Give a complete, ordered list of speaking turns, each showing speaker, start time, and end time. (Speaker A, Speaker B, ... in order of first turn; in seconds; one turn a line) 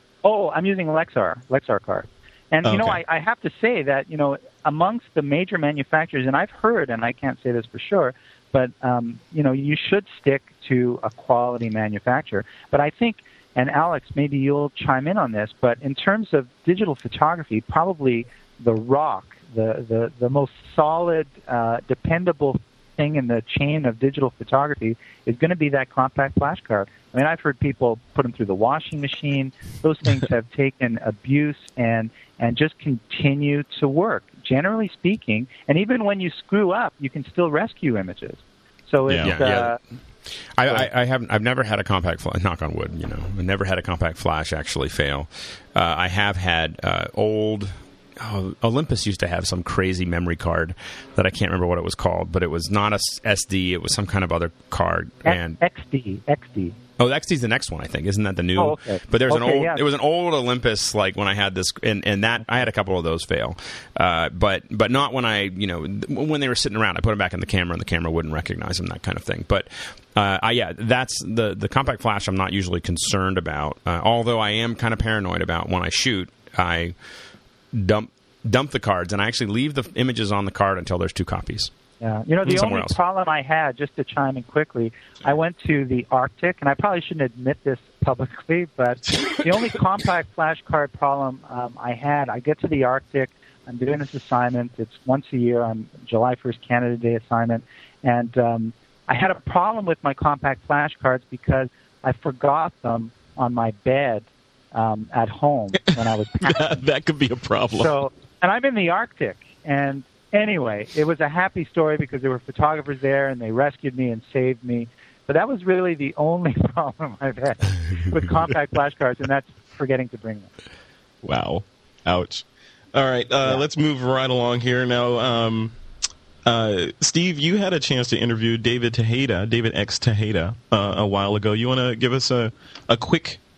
Speaker A: 0.2-39.8
Speaker B: 2.6-3.0
Speaker B: 39.1-39.4
Speaker C: 39.2-39.7
Speaker C: 40.5-55.6
Speaker A: 55.2-56.8
Speaker C: 57.0-76.9
Speaker A: 58.6-59.8
Speaker C: 77.7-81.7
Speaker A: 82.0-106.8
Speaker C: 82.5-83.0
Speaker B: 105.9-108.0
Speaker A: 107.7-120.5
Speaker B: 121.2-125.8
Speaker B: 126.4-133.4